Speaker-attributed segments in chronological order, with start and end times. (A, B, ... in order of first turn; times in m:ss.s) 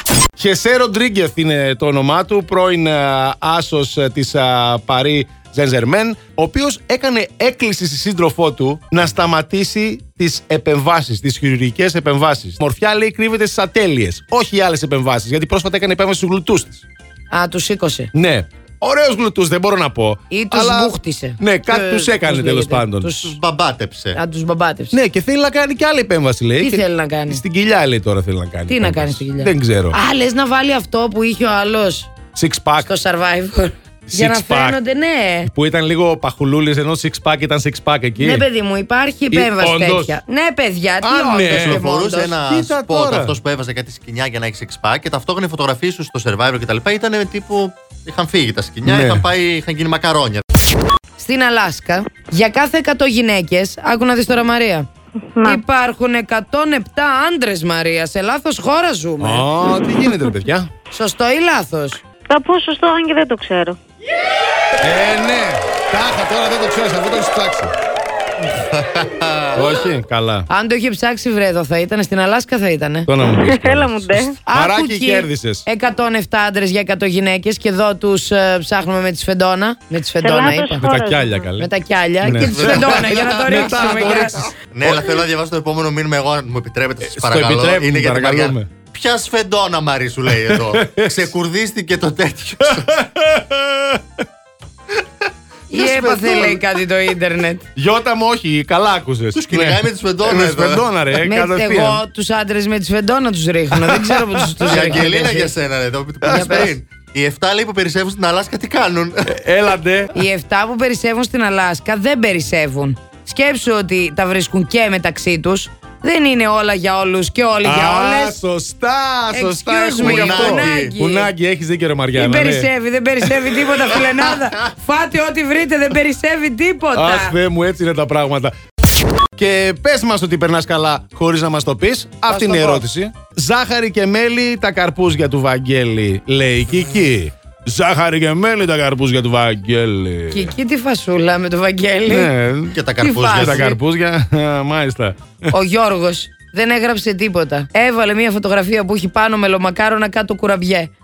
0:00.4-0:16.8 A
0:17.3-0:18.1 B
0:18.1-0:23.2 A
0:20.3-0:21.4 B
0:21.7-0:22.1 C
0:22.2-0:23.4 B
0:23.2-0:24.2 C
0:24.1-0:25.0 B
0:24.9-0:30.0 A
0:26.6-0:27.4 B
0:28.7-0:32.1 B
0:32.3-0:32.9 A
0:32.8-0:35.5 B
0:34.1-0:34.8 A
0:35.4-0:38.4 A
0:38.2-0:42.3 B
0:39.3-0:40.2 A
0:41.0-0:41.8 A
0:41.5-0:50.4 C
0:42.5-0:43.4 A
0:48.8-0:49.3 A
0:51.2-0:54.9 B
0:55.4-0:59.4 B
0:59.2-1:00.7 A
1:00.9-1:02.0 B
1:02.3-1:03.8 D
1:04.8-1:07.7 A
1:08.6-1:09.6 C
1:09.5-1:10.5 A
1:10.5-1:13.1 B
1:13.1-1:15.6 A
1:13.4-1:14.4 D
1:14.5-1:20.8 B
1:20.2-1:21.5 D
1:20.8-1:21.7 A
1:21.6-1:24.4 B
1:22.2-1:25.1 A
1:22.2-1:32.9 C
1:27.0-1:28.7 A
1:30.5-1:31.2 A
1:32.6-1:34.0 A
1:35.7-1:37.6 B
1:35.8-1:36.5 A
1:35.9-1:36.5 C
1:37.8-1:42.0 A
1:39.3-1:40.8 C
1:41.2-1:45.5 B
1:43.7-1:45.1 A
1:44.6-1:49.3 C
1:46.2-1:46.7 A
1:46.2-1:46.7 B
1:49.3-1:50.2 A
1:50.1-1:58.4 B
1:57.6-2:02.7 A
1:59.3-2:01.3 B
2:00.0-2:00.9 C
2:02.1-2:07.4 B
2:03.2-2:04.1 A
2:06.9-2:08.5 A
2:09.4-2:20.6 A
2:12.3-2:12.8 B
2:20.3-2:22.3 B
2:22.1-2:25.5 A
2:22.7-2:23.7 C
2:23.0-2:23.8 B
2:25.5-2:30.9 B